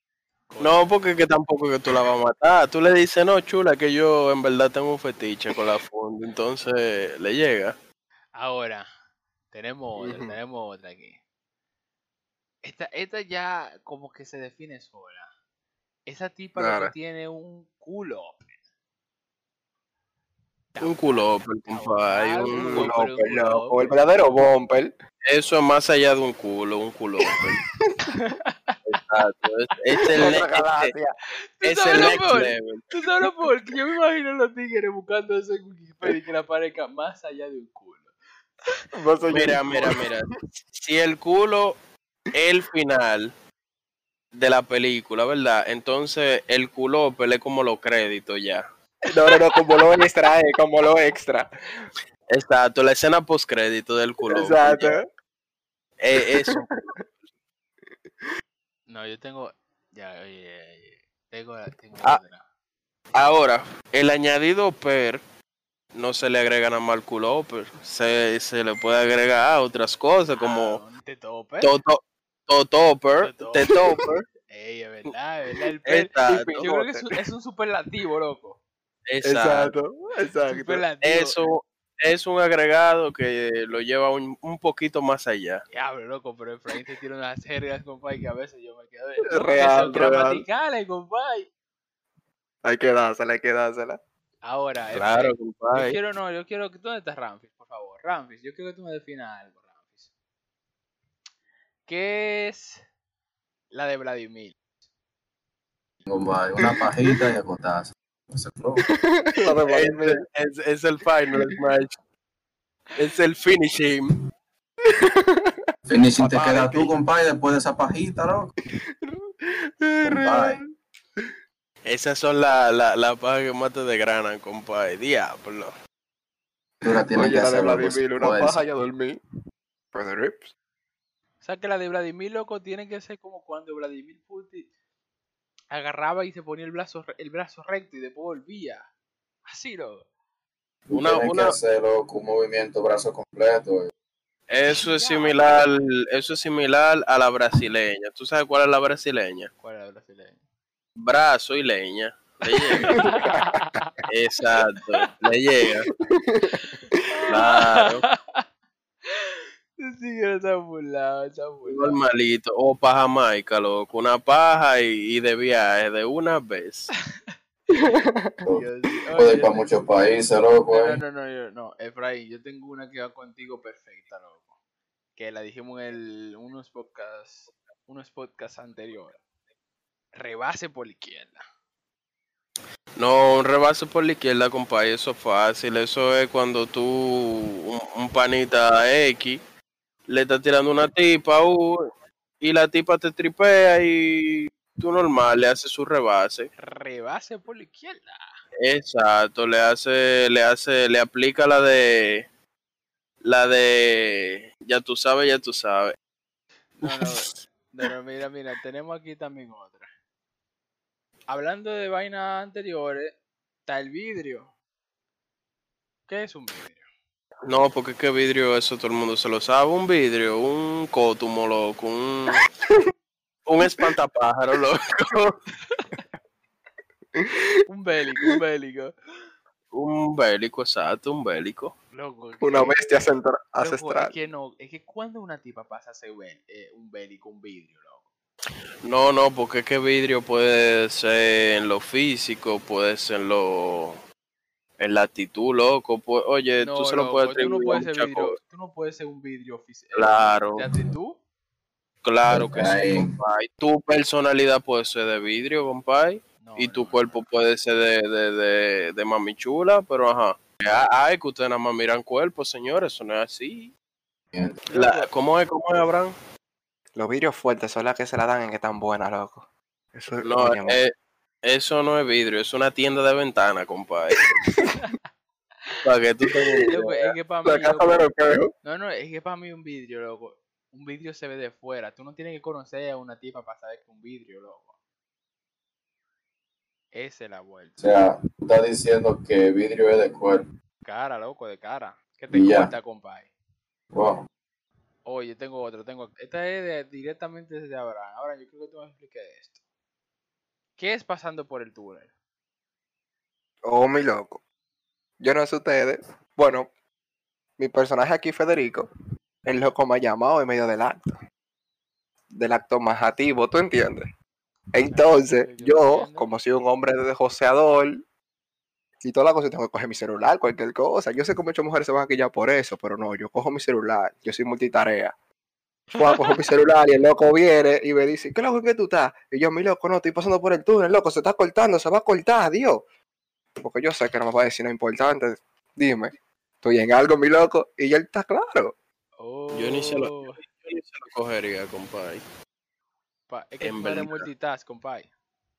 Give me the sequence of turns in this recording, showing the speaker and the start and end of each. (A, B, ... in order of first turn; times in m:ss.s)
0:00.5-0:00.8 A
0:00.6-0:07.7 B
0:08.3-0:08.9 A
0:09.5-0:11.2 A
0:10.0-0:10.4 C
0:12.6-0:15.3 A
0:16.1-0:18.5 A
0:16.6-0:16.9 C
0:20.7-0:24.4 A
0:20.8-0:22.9 B
0:22.5-0:24.9 C
0:25.3-0:27.6 B
0:28.1-0:29.0 A
0:28.9-0:30.9 B
0:30.1-0:31.1 C
0:31.6-0:38.1 A
0:31.6-0:32.9 B
0:38.9-0:40.0 C
0:39.3-0:41.8 B
0:42.3-0:43.3 B
0:44.3-0:48.6 B
0:49.1-0:51.5 C
0:52.3-0:54.9 B
0:54.3-0:55.0 C
0:56.0-0:56.7 B
0:56.4-0:56.7 C
0:58.9-1:02.4 A
1:03.1-1:05.2 B
1:05.9-1:10.8 B
1:10.4-1:11.7 A
1:11.6-1:14.2 B
1:13.2-1:13.8 A
1:14.5-1:18.6 A
1:15.9-1:16.7 B
1:16.3-1:17.0 C
1:19.1-1:19.7 B
1:19.2-1:20.8 C
1:20.4-1:21.4 A
1:21.0-1:25.6 B
1:25.7-1:31.5 A
1:29.3-1:30.4 C
1:29.9-1:30.2 B
1:32.6-1:34.0 C
1:34.4-1:40.1 A
1:34.9-1:36.0 B
1:41.9-1:42.8 A
1:43.7-1:44.6 A
1:46.0-1:48.8 D
1:48.9-1:50.2 C
1:49.7-1:52.0 B
1:53.0-1:54.1 B
1:54.8-1:55.7 C
1:55.9-1:58.5 D
1:56.2-1:56.9 C
1:58.8-2:00.7 C
2:00.0-2:00.6 D
2:01.9-2:05.7 B
2:06.8-2:08.6 D
2:07.1-2:09.2 C
2:09.9-2:10.5 C
2:11.4-2:14.7 A
2:15.7-2:18.9 A
2:19.5-2:20.1 A
2:20.9-2:23.9 D
2:20.9-2:21.5 B
2:24.5-2:29.5 B
2:24.7-2:25.6 A
2:29.6-2:30.4 A
2:31.0-2:33.0 B
2:32.5-2:34.0 A
2:32.9-2:33.6 C
2:34.1-2:35.9 B
2:36.0-2:37.0 C
2:36.5-2:38.4 A
2:37.3-2:38.0 B
2:39.1-2:42.0 A
2:41.6-2:46.9 B
2:47.3-2:48.0 A
2:47.7-2:48.4 C
2:48.5-2:49.7 A
2:49.2-2:51.0 D
2:50.7-2:54.5 A
2:55.2-2:59.2 A
3:00.2-3:01.4 A
3:03.0-3:09.4 B
3:10.1-3:11.9 B
3:12.4-3:16.5 B
3:16.6-3:18.3 A
3:18.6-3:22.2 B
3:23.2-3:26.0 B
3:26.8-3:29.9 A
3:26.8-3:27.3 B
3:31.3-3:34.5 A
3:36.1-3:36.8 A
3:37.4-3:42.4 B
3:43.5-3:45.4 B
3:45.7-3:46.0 A
3:47.7-3:48.9 A
3:49.7-3:51.7 B
3:51.9-3:52.8 A
3:52.4-3:54.1 C
3:53.6-3:58.0 A
3:58.8-4:04.0 B
4:04.8-4:08.4 B
4:06.6-4:11.2 A
4:09.9-4:10.7 B
4:12.0-4:23.7 B
4:12.3-4:13.1 D
4:16.4-4:17.2 A
4:24.7-4:25.1 A
4:24.7-4:26.1 B
4:26.9-4:30.8 C
4:30.2-4:30.9 B
4:31.4-4:34.2 B
4:35.8-4:36.9 B
4:36.7-4:38.1 A
4:37.4-4:38.5 C
4:38.6-4:44.7 A
4:46.9-4:47.8 A
4:47.8-4:50.4 D
4:50.8-4:53.3 A
4:52.3-4:52.7 D
4:53.9-4:54.2 D
4:55.0-4:59.6 A
5:00.8-5:02.1 A
5:03.6-5:04.4 C
5:05.2-5:06.7 C
5:07.6-5:08.9 C
5:09.4-5:11.2 C
5:12.3-5:14.1 C
5:14.7-5:18.0 C
5:14.8-5:16.3 A
5:19.0-5:25.1 C
5:25.9-5:32.8 C
5:33.6-5:38.7 C
5:39.2-5:40.4 A
5:39.5-5:42.2 B
5:43.3-5:45.1 A
5:43.6-5:44.3 B